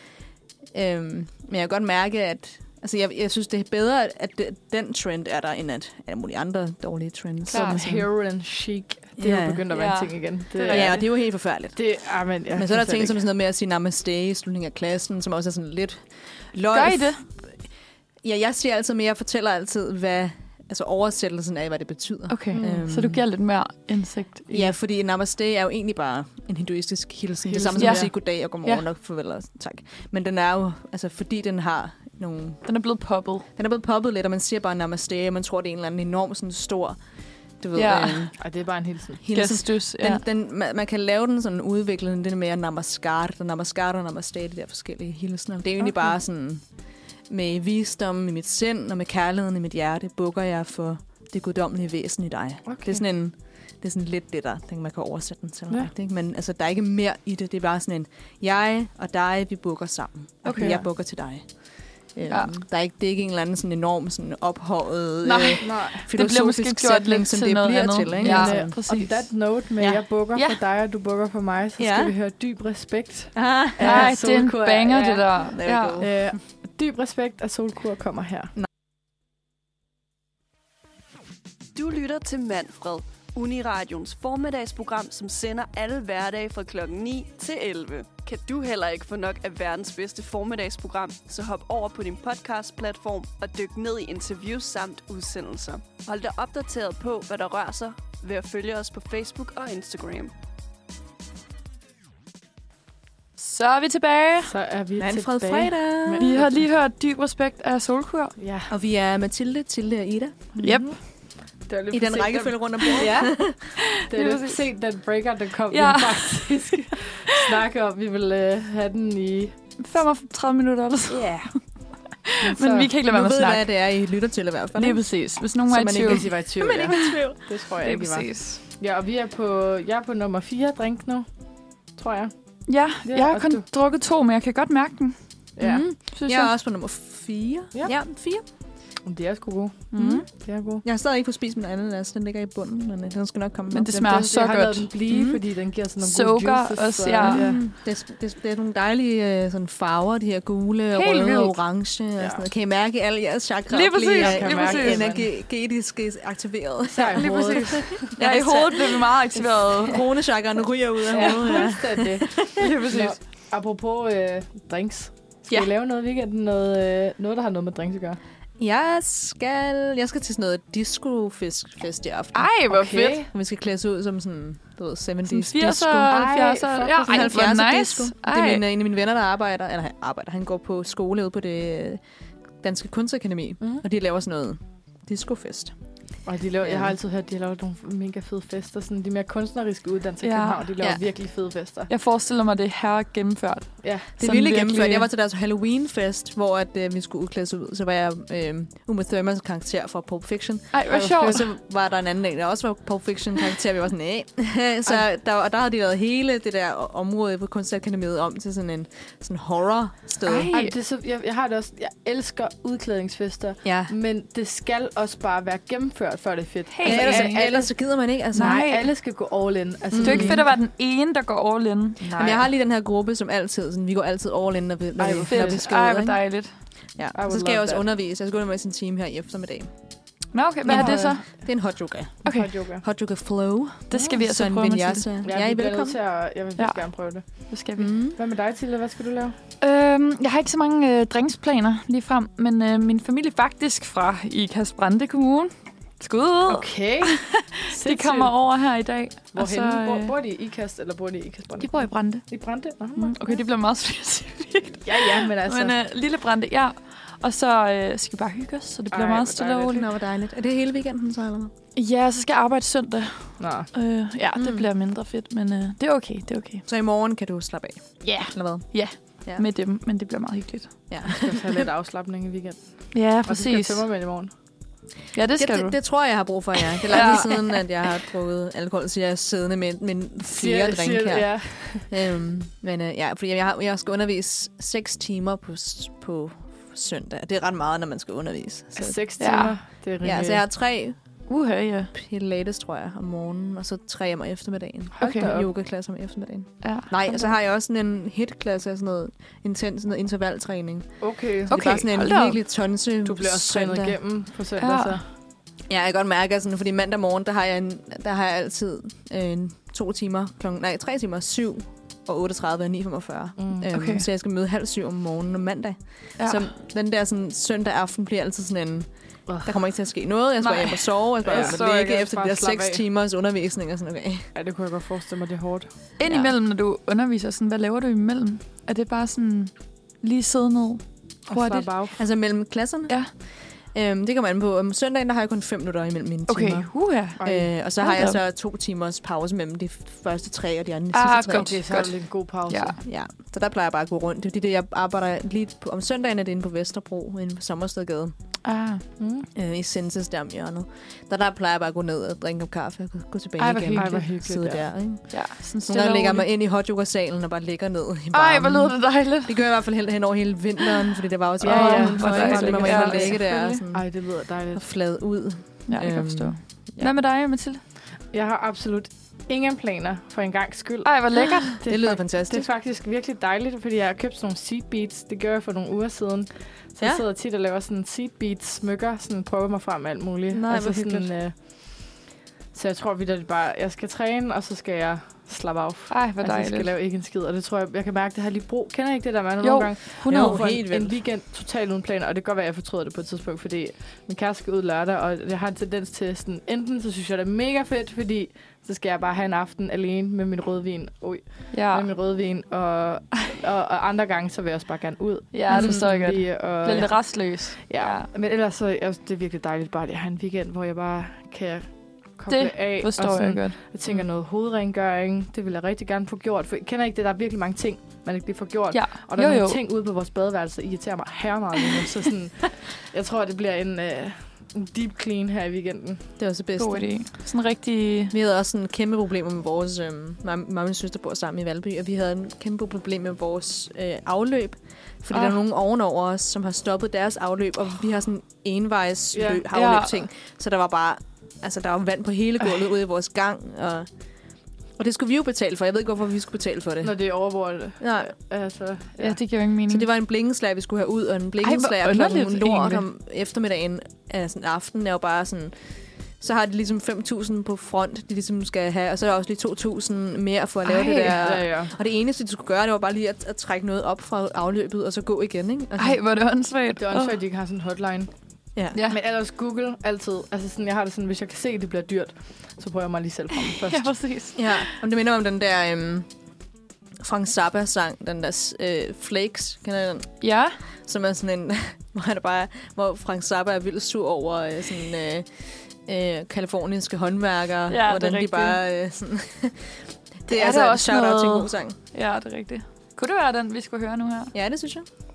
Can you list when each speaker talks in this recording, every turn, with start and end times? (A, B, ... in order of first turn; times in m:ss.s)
0:00.7-0:07.8 A
0:07.5-0:08.1 B
0:07.5-0:13.2 C
0:09.2-0:09.7 A
0:09.7-0:11.1 B
0:10.7-0:17.7 A
0:16.7-0:17.2 B
0:18.2-0:23.2 A
0:22.3-0:24.7 B
0:22.5-0:22.8 C
0:24.5-0:32.7 A
0:27.4-0:28.1 C
0:27.8-0:28.8 B
0:32.6-0:33.5 B
0:33.6-0:38.3 A
0:37.7-0:38.4 B
0:38.4-0:39.2 C
0:39.2-0:46.7 A
0:39.3-0:40.2 B
0:45.8-0:46.1 C
0:47.3-1:08.8 A
0:52.6-0:53.0 C
1:00.4-1:00.9 C
1:05.2-1:09.5 B
1:05.6-1:06.1 C
1:08.2-1:18.5 C
1:11.8-1:12.1 A
1:13.4-1:14.1 A
1:13.8-1:16.0 B
1:15.5-1:16.4 A
1:21.8-1:40.3 D
1:43.4-1:44.5 B
1:44.4-1:46.6 C
1:45.0-1:46.4 A
1:46.2-1:48.4 B
1:48.4-1:48.7 C
1:48.7-1:50.5 A
1:50.6-1:53.4 C
1:50.6-1:51.0 B
1:51.9-1:53.6 A
1:52.8-1:54.6 B
1:54.0-1:59.6 C
1:55.7-1:57.0 B
1:59.8-2:01.5 B
2:02.4-2:03.7 B
2:02.4-2:02.9 C
2:03.0-2:05.0 A
2:04.8-2:06.3 B
2:05.7-2:07.4 A
2:05.8-2:12.3 C
2:07.8-2:08.6 B
2:12.7-2:16.5 B
2:13.0-2:13.6 C
2:15.6-2:15.8 C
2:15.6-2:18.4 A
2:19.0-2:20.8 C
2:19.9-2:20.3 B
2:19.9-2:20.3 A
2:20.8-2:24.1 A
2:23.7-2:25.0 B
2:23.9-2:27.6 C
2:25.1-2:25.4 A
2:26.0-2:27.5 B
2:27.2-2:39.1 A
2:30.9-2:31.6 B
2:32.2-2:32.4 C
2:33.7-2:35.1 B
2:34.2-2:35.3 C
2:36.9-2:38.1 C
2:37.1-2:40.0 B
2:39.6-2:42.7 A
2:41.1-2:48.2 C
2:41.1-2:41.6 B
2:42.6-2:43.2 B
2:48.6-2:52.5 A
2:52.3-2:53.2 B
2:52.7-2:53.3 C
2:53.1-2:56.3 A
2:55.3-2:58.6 B
2:56.1-2:57.4 C
2:57.1-3:02.0 A
3:02.6-3:05.8 A
3:06.2-3:11.9 C
3:06.6-3:06.9 A
3:10.2-3:10.7 B
3:11.9-3:15.1 B
3:13.8-3:14.1 C
3:14.2-3:30.5 A
3:20.7-3:21.4 B
3:20.9-3:21.4 C
3:30.2-3:30.8 B
3:30.5-3:40.5 C
3:33.6-3:33.9 A
3:36.7-3:37.8 B
3:36.8-3:38.6 A
3:38.3-3:38.9 B
3:39.9-3:40.4 A
3:40.0-3:42.0 B
3:42.0-3:42.5 C
3:42.2-3:46.3 A
3:45.0-3:45.7 C
3:45.3-3:46.5 B
3:46.9-3:49.7 A
3:47.1-3:47.9 C
3:50.3-3:51.7 B
3:50.7-3:56.0 A
3:50.7-3:51.5 C
3:52.2-3:52.8 C
3:52.2-3:52.5 B
3:53.9-3:55.1 B
3:55.2-3:57.6 C
3:56.6-3:57.9 B
3:57.8-3:58.2 A
3:58.2-3:59.4 C
3:59.6-4:10.1 B
4:06.5-4:08.3 C
4:09.3-4:13.4 C
4:11.6-4:19.9 B
4:14.8-4:15.8 C
4:18.9-4:19.7 C
4:19.6-4:21.5 A
4:21.8-4:26.6 B
4:23.4-4:23.7 C
4:24.4-4:24.7 A
4:26.7-4:29.5 A
4:28.0-4:31.0 B
4:30.9-4:31.6 A
4:31.1-4:34.3 C
4:32.9-4:33.8 B
4:35.1-4:37.6 B
4:35.4-4:49.0 A
4:40.2-4:41.9 C
4:48.8-4:50.4 C
4:49.2-4:49.6 B
4:50.0-4:51.2 A
4:51.3-4:51.9 B
4:51.9-5:04.0 A
4:55.0-4:55.5 C
4:55.0-4:55.3 B
4:56.6-4:57.3 B
5:01.0-5:01.5 C
5:01.5-5:02.4 B
5:03.0-5:05.0 C
5:04.6-5:05.0 B
5:05.7-5:24.3 A
5:13.4-5:13.7 C
5:13.7-5:14.1 B
5:16.2-5:16.5 B
5:19.3-5:19.5 C
5:20.4-5:21.8 B
5:21.2-5:22.8 C
5:24.3-5:25.7 C
5:26.0-5:31.7 B
5:26.1-5:26.3 A
5:31.3-5:32.0 C
5:31.9-5:41.7 A
5:36.3-5:38.2 B
5:37.2-5:37.5 C
5:40.9-5:42.8 B
5:41.3-5:42.8 C
5:42.8-5:48.1 A
5:48.4-5:48.8 B
5:49.0-5:49.3 C
5:49.3-6:06.8 A
5:53.4-5:54.1 B
5:53.7-5:54.7 C
5:55.1-5:56.3 B
5:58.1-5:59.7 B
6:01.4-6:04.7 C
6:01.4-6:03.6 B
6:05.7-6:07.6 B
6:08.1-7:06.1 C
6:10.8-6:11.6 B
6:11.7-6:12.5 A
6:16.8-6:17.0 A
6:20.3-6:21.1 A
6:25.9-6:26.7 B
6:29.4-6:30.5 B
6:30.1-6:31.0 A
6:41.5-6:41.9 B
6:45.3-6:48.1 B
6:45.5-6:45.8 A
6:52.3-6:53.6 B
6:58.7-6:59.6 B
7:06.2-7:07.1 A
7:06.6-7:08.1 B
7:08.1-7:23.9 A
7:15.1-7:15.4 B
7:19.1-7:19.4 C
7:19.5-7:20.0 B
7:24.8-7:27.2 A
7:26.8-7:29.2 C
7:27.8-7:28.1 A
7:29.0-7:29.9 B
7:29.7-7:46.0 A
7:31.4-7:32.8 B
7:40.7-7:41.7 C
7:40.8-7:41.1 B
7:45.8-7:47.2 B
7:46.8-7:48.1 C
7:48.8-7:53.9 C
7:53.6-7:54.8 B
7:54.4-7:56.1 A
7:57.0-8:11.8 A
8:00.2-8:00.6 B
8:07.7-8:08.6 B
8:10.3-8:14.3 B
8:14.3-8:14.9 A